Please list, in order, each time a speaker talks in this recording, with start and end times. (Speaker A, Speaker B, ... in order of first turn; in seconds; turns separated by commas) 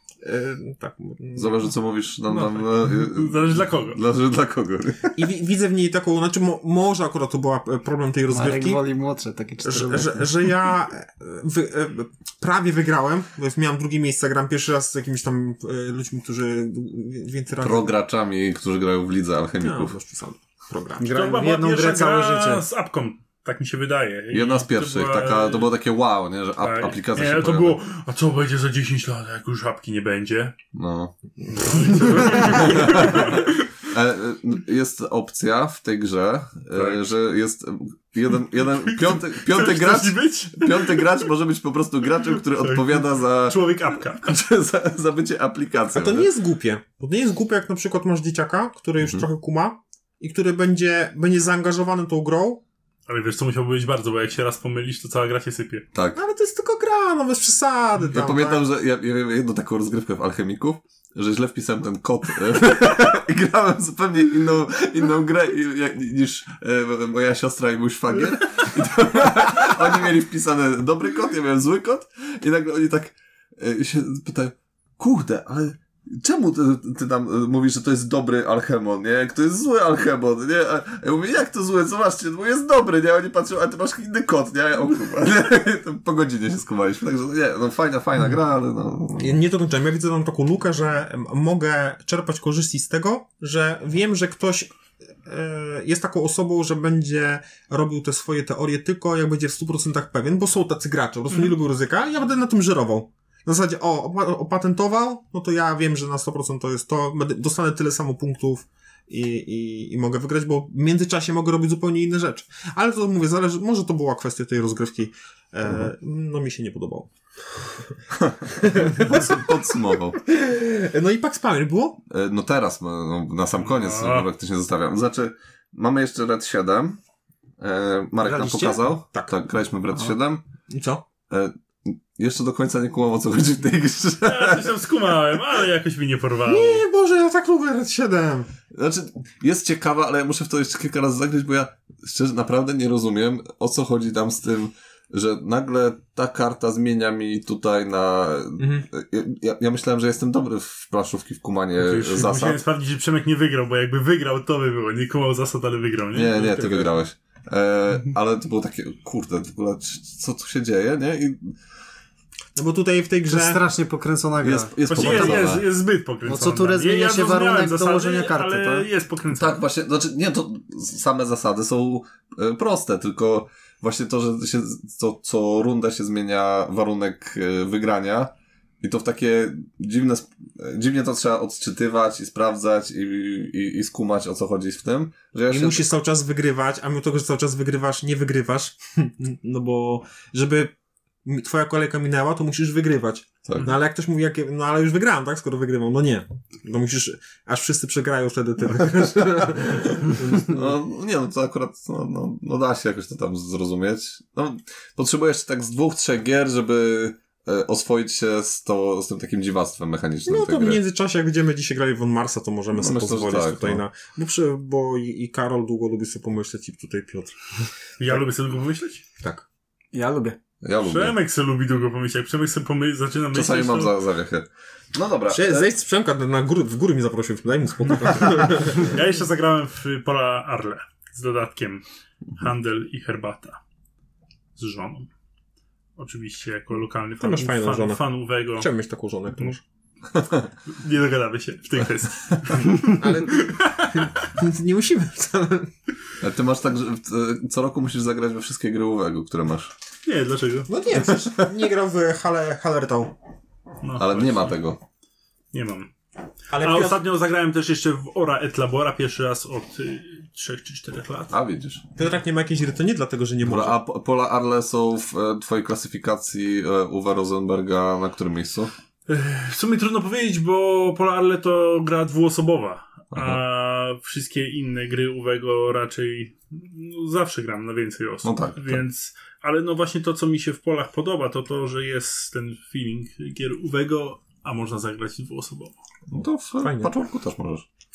Speaker A: 0.2-1.7, Speaker B: 1.3-5.2, Speaker C: 2.3-4.0, Speaker A: 5.2-8.8, Speaker D: 8.3-10.3, Speaker A: 9.6-17.9, Speaker B: 17.6-19.9, Speaker A: 19.6-21.1, Speaker D: 21.0-22.6, Speaker C: 21.1-25.7, Speaker B: 24.3-27.8, Speaker C: 26.6-30.5, Speaker B: 30.7-31.1, Speaker A: 31.4-32.6, Speaker C: 31.5-33.7, Speaker B: 32.3-46.3, Speaker C: 38.7-41.3, Speaker C: 42.3-44.3, Speaker A: 45.9-52.6, Speaker C: 53.1-55.9, Speaker B: 55.9-56.2, Speaker A: 56.1-58.6, Speaker B: 58.1-89.3, Speaker A: 89.2-117.1, Speaker B: 118.2-120.2, Speaker A: 118.5-119.5, Speaker A: 120.1-122.0, Speaker B: 122.1-127.0, Speaker C: 123.6-124.3, Speaker B: 127.6-130.4, Speaker D: 128.2-128.8, Speaker A: 130.7-131.0, Speaker B: 131.3-134.7, Speaker C: 134.2-136.8, Speaker A: 136.4-138.5, Speaker B: 138.7-152.6, Speaker A: 148.6-148.8, Speaker C: 151.8-156.7, Speaker B: 156.1-161.6, Speaker A: 162.5-163.6, Speaker D: 163.3-165.4, Speaker B: 164.4-165.7, Speaker C: 164.9-169.6, Speaker D: 166.2-168.8, Speaker B: 169.3-185.8, Speaker A: 185.5-190.7, Speaker A: 191.2-200.7, Speaker B: 193.4-193.7, Speaker B: 199.6-210.8, Speaker A: 210.2-218.2, Speaker B: 212.7-213.8, Speaker C: 218.0-219.0, Speaker A: 219.2-219.4, Speaker D: 219.9-220.4, Speaker B: 220.6-221.2, Speaker C: 220.8-223.9, Speaker B: 223.3-225.7, Speaker A: 225.3-228.9, Speaker C: 228.7-231.8, Speaker C: 232.3-233.6, Speaker C: 234.6-235.1, Speaker C: 236.0-238.7, Speaker A: 237.2-238.0, Speaker A: 238.5-239.6, Speaker B: 240.1-240.5, Speaker C: 240.7-244.1, Speaker A: 242.8-245.7, Speaker B: 246.2-249.7, Speaker C: 250.0-250.7, Speaker A: 250.7-253.1, Speaker C: 253.8-254.5, Speaker B: 253.9-254.8, Speaker C: 255.5-255.9, Speaker A: 256.5-257.0, Speaker C: 256.6-261.3, Speaker B: 261.3-261.8, Speaker A: 261.9-263.8, Speaker B: 263.4-268.7, Speaker C: 269.1-285.7, Speaker B: 273.1-273.4, Speaker B: 278.2-278.8, Speaker B: 286.1-287.7, Speaker A: 286.6-286.9